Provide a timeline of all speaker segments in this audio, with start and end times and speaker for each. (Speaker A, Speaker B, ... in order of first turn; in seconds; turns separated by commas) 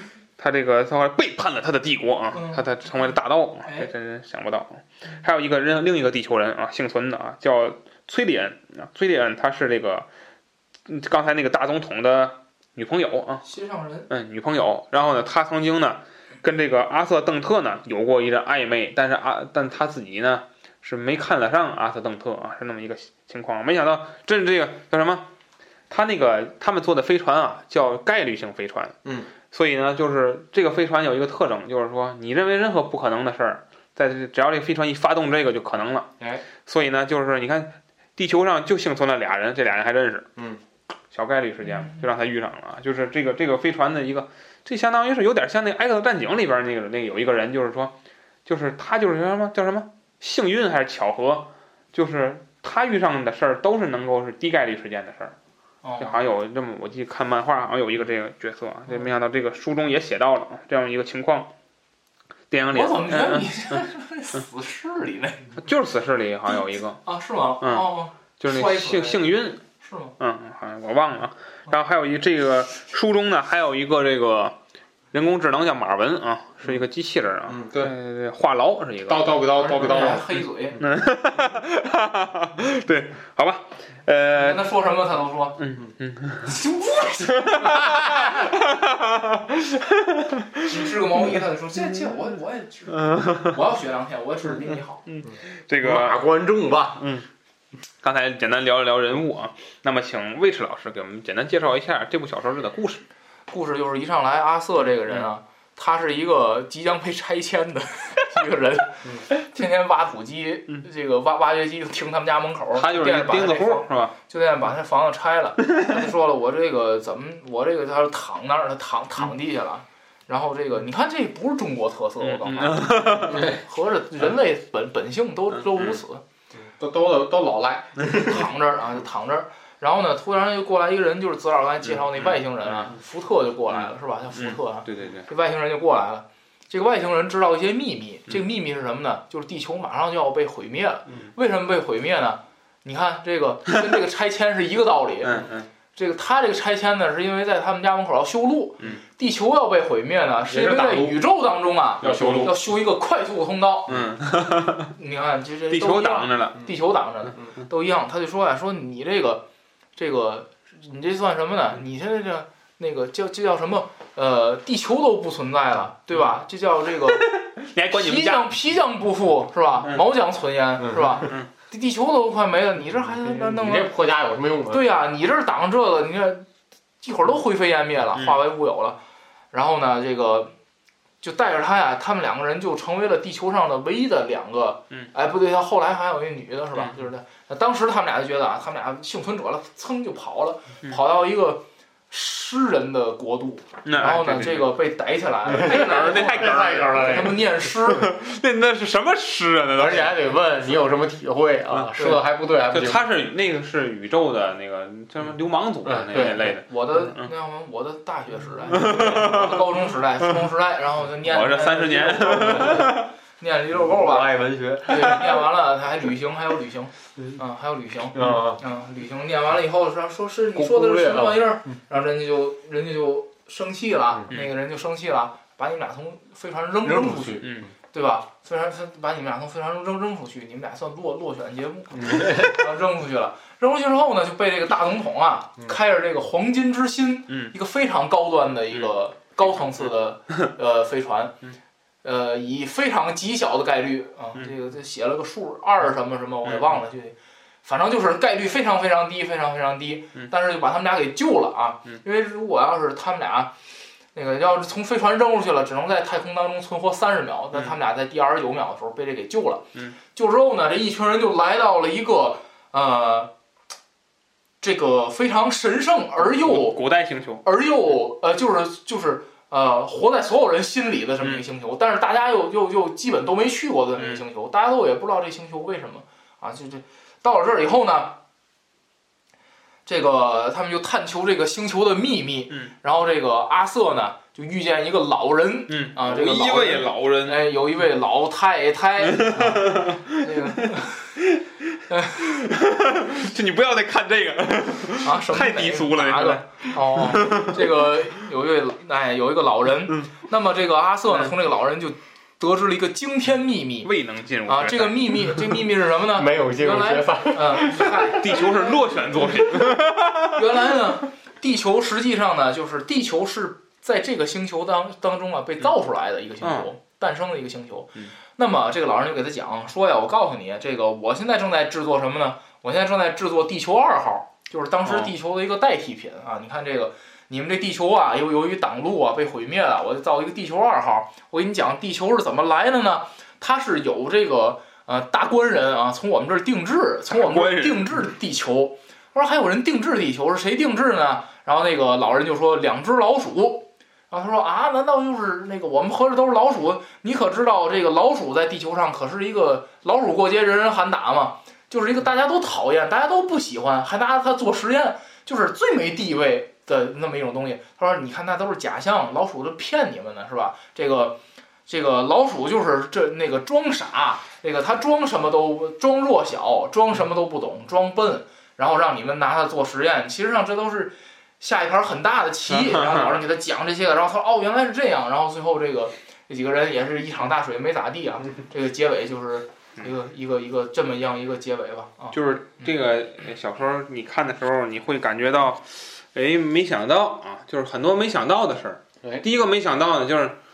Speaker A: 0.4-10.1, Speaker B: 2.3-3.1, Speaker A: 10.9-13.4, Speaker B: 13.4-14.1, Speaker A: 14.1-25.3, Speaker A: 25.9-28.9, Speaker A: 29.5-36.1, Speaker A: 36.6-40.3, Speaker A: 41.1-47.9, Speaker A: 48.5-55.4, Speaker B: 55.8-56.2, Speaker A: 56.0-61.5, Speaker A: 62.5-63.8, Speaker B: 62.7-65.5, Speaker A: 65.5-67.0, Speaker B: 66.5-69.3, Speaker A: 67.6-67.9, Speaker A: 68.4-69.6, Speaker B: 69.8-70.1, Speaker A: 70.2-74.6, Speaker A: 75.1-80.1, Speaker C: 77.5-77.9, Speaker C: 79.1-80.3, Speaker B: 79.6-80.8, Speaker A: 80.8-84.7, Speaker B: 84.3-85.6, Speaker A: 85.6-86.6, Speaker B: 86.5-87.6, Speaker A: 87.2-91.4, Speaker B: 90.6-95.0, Speaker A: 93.0-93.6, Speaker A: 95.1-96.3, Speaker C: 95.8-97.1, Speaker A: 97.0-97.2, Speaker A: 98.0-103.0, Speaker B: 103.5-126.2, Speaker A: 112.7-114.1, Speaker A: 122.2-123.5, Speaker A: 125.7-126.0, Speaker C: 126.6-128.4, Speaker B: 128.1-145.4, Speaker A: 132.1-132.8, Speaker A: 133.7-135.3, Speaker A: 145.2-145.7, Speaker B: 145.9-153.9, Speaker C: 150.5-151.2, Speaker A: 152.0-152.5, Speaker C: 152.0-152.5, Speaker A: 153.9-154.9, Speaker C: 153.9-154.1, Speaker B: 154.9-159.4, Speaker A: 155.7-156.6, Speaker B: 159.9-167.3, Speaker A: 167.1-168.5, Speaker B: 167.9-173.9, Speaker A: 171.2-171.5, Speaker C: 173.2-174.8, Speaker B: 174.7-176.5, Speaker B: 177.0-179.0, Speaker A: 178.2-178.4, Speaker B: 179.5-180.5, Speaker B: 181.2-198.1, Speaker A: 193.8-194.7, Speaker C: 195.5-197.7, Speaker A: 195.5-197.3, Speaker A: 197.8-200.2, Speaker C: 199.8-203.0, Speaker A: 201.7-202.0, Speaker A: 202.7-207.3, Speaker C: 205.8-206.6, Speaker B: 206.5-241.3, Speaker A: 208.7-209.8, Speaker A: 211.2-213.1, Speaker C: 212.6-212.9, Speaker C: 213.7-215.4, Speaker C: 218.1-218.6, Speaker C: 220.5-221.6, Speaker C: 226.8-227.6, Speaker A: 227.4-227.7, Speaker C: 231.9-232.6, Speaker B: 242.0-253.5, Speaker A: 246.4-246.7, Speaker B: 254.1-263.3, Speaker B: 264.6-266.8, Speaker A: 266.3-267.4, Speaker B: 267.4-278.2, Speaker A: 273.9-274.2, Speaker B: 279.9-291.1, Speaker A: 285.7-287.5, Speaker A: 289.0-290.3, Speaker A: 291.2-297.9, Speaker B: 291.9-292.2, Speaker B: 295.0-303.9, Speaker A: 303.8-305.4, Speaker B: 304.5-309.3, Speaker C: 306.1-308.2, Speaker A: 308.1-310.4, Speaker B: 310.3-382.1, Speaker A: 316.4-316.7, Speaker A: 324.9-325.1, Speaker A: 337.1-338.0, Speaker A: 372.5-373.2, Speaker A: 382.1-390.4